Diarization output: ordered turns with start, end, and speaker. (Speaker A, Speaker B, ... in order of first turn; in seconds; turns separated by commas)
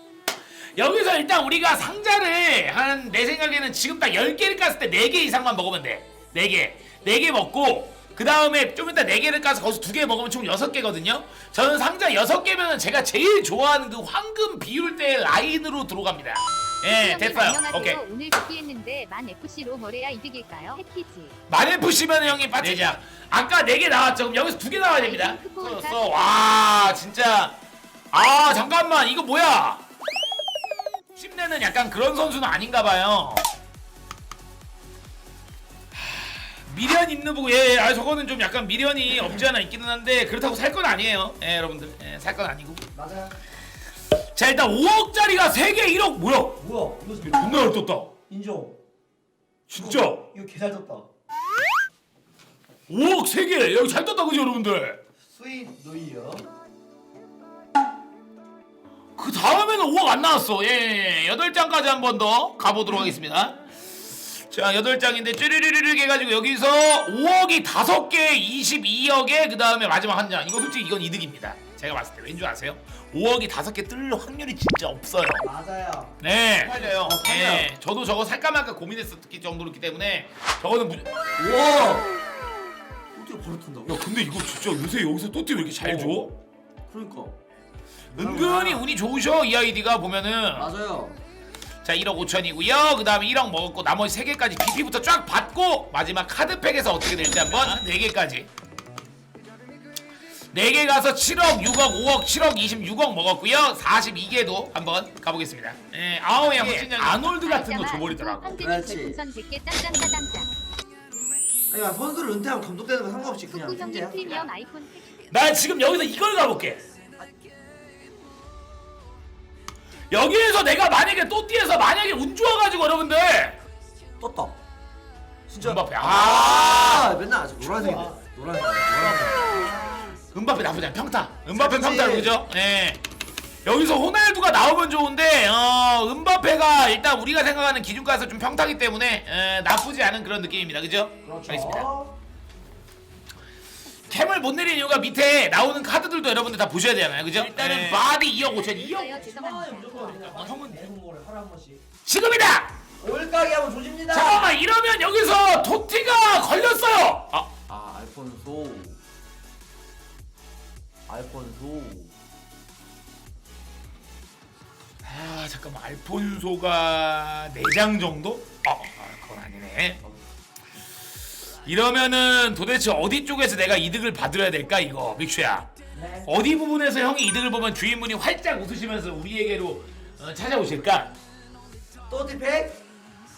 Speaker A: 0.8-18.0, Speaker B: 16.9-21.4, Speaker A: 21.5-27.6, Speaker B: 25.0-26.3, Speaker A: 28.1-29.8, Speaker A: 31.1-33.4, Speaker A: 35.9-42.8, Speaker C: 42.9-43.4, Speaker A: 44.3-46.6, Speaker C: 46.6-47.7, Speaker A: 47.2-48.1, Speaker C: 48.3-48.8, Speaker A: 49.7-50.3, Speaker C: 49.8-51.0, Speaker A: 52.9-55.0, Speaker C: 55.3-56.4, Speaker A: 59.2-75.5, Speaker C: 75.4-77.7, Speaker A: 76.2-81.1, Speaker C: 81.4-82.1, Speaker C: 83.1-84.0, Speaker A: 83.8-86.3, Speaker C: 85.8-86.3, Speaker C: 86.9-87.4, Speaker A: 88.1-90.7, Speaker C: 88.1-88.8, Speaker C: 90.5-91.2, Speaker A: 91.8-98.5, Speaker A: 100.5-108.6, Speaker B: 106.7-110.5, Speaker C: 108.6-109.2, Speaker C: 111.7-114.5, Speaker B: 113.5-115.3, Speaker A: 115.3-116.8, Speaker A: 120.1-123.6, Speaker C: 124.2-124.5, Speaker C: 125.5-130.0, Speaker A: 125.6-128.1, Speaker A: 130.3-133.0, Speaker C: 131.5-132.3, Speaker A: 133.6-141.9, Speaker C: 141.2-142.1, Speaker A: 144.1-149.2, Speaker C: 147.4-148.0, Speaker B: 148.6-150.2, Speaker C: 149.0-151.8, Speaker A: 150.0-150.8, Speaker A: 152.0-152.8, Speaker C: 153.0-154.5, Speaker A: 154.1-157.5, Speaker C: 157.7-159.0, Speaker C: 161.1-162.1, Speaker A: 165.0-170.0, Speaker A: 171.6-175.7, Speaker C: 175.9-176.3, Speaker A: 176.2-181.1, Speaker C: 182.1-182.8